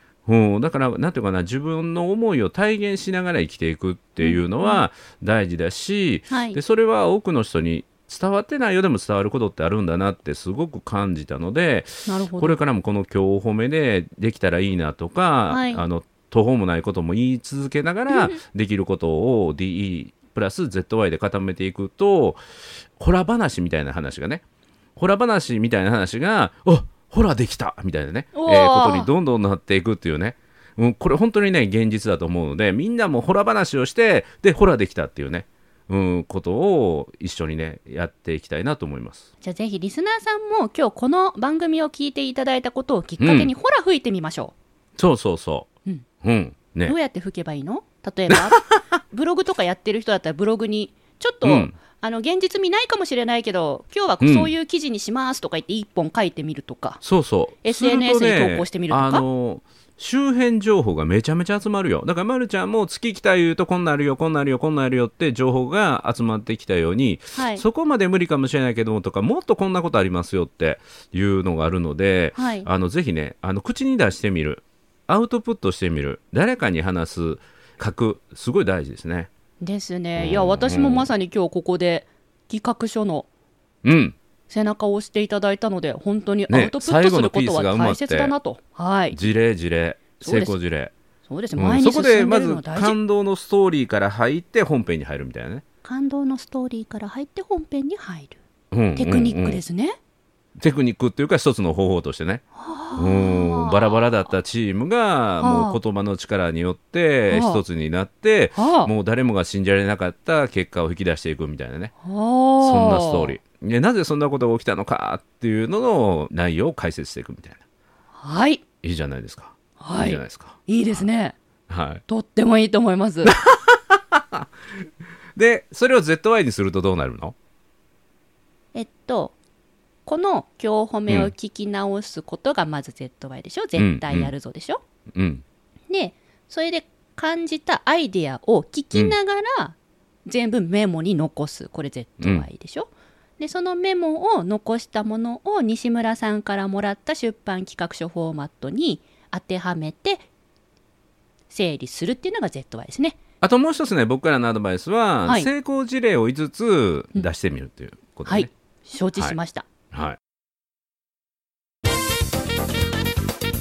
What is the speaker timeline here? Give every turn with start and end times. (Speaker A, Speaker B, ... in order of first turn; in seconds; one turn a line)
Speaker A: 0.2-22.4
Speaker B: 4.2-4.8
Speaker B: 6.3-6.6
Speaker B: 12.1-12.6
Speaker B: 15.5-15.8
Speaker B: 18.1-18.4
Speaker A: 23.0-24.4
Speaker A: 24.9-39.3
Speaker B: 28.3-29.1
Speaker B: 39.4-44.5
Speaker A: 43.2-43.5
Speaker A: 45.0-45.7
Speaker A: 46.2-46.9
Speaker B: 46.8-57.0
Speaker A: 48.3-48.8
Speaker A: 51.4-51.7
Speaker A: 54.2-54.5
Speaker A: 57.0-79.3
Speaker B: 57.6-59.2
Speaker B: 67.3-67.6
Speaker B: 72.3-72.7
Speaker B: 79.6-83.3
Speaker A: 80.2-81.1
Speaker A: 83.8-84.2
Speaker B: 84.5-89.2
Speaker A: 86.5-88.3
Speaker A: 89.1-90.9
Speaker B: 90.2-90.5
Speaker B: 91.3-93.0
Speaker A: 91.5-95.6
Speaker B: 95.8-98.4
Speaker A: 98.7-99.6
Speaker B: 98.9-100.0
Speaker A: 100.6-102.4
Speaker B: 102.5-104.0
Speaker A: 102.9-111.9
Speaker B: 105.4-105.8
Speaker B: 107.3-107.6
Speaker B: 108.6-108.9
Speaker B: 112.0-113.3
Speaker A: 112.6-117.6
Speaker B: 118.1-118.6
Speaker A: 118.8-121.0
Speaker B: 119.8-121.3
Speaker A: 121.7-122.0
Speaker B: 122.1-123.3
Speaker A: 123.2-124.8
Speaker A: 125.3-127.3
Speaker B: 128.7-129.3
Speaker B: 130.1-134.8
Speaker A: 133.8-134.3
Speaker A: 135.1-135.4
Speaker B: 135.9-150.2
Speaker A: 142.2-142.4
Speaker B: 151.5-153.2
Speaker A: 153.4-158.5
Speaker B: 158.2-159.7
Speaker A: 159.9-160.2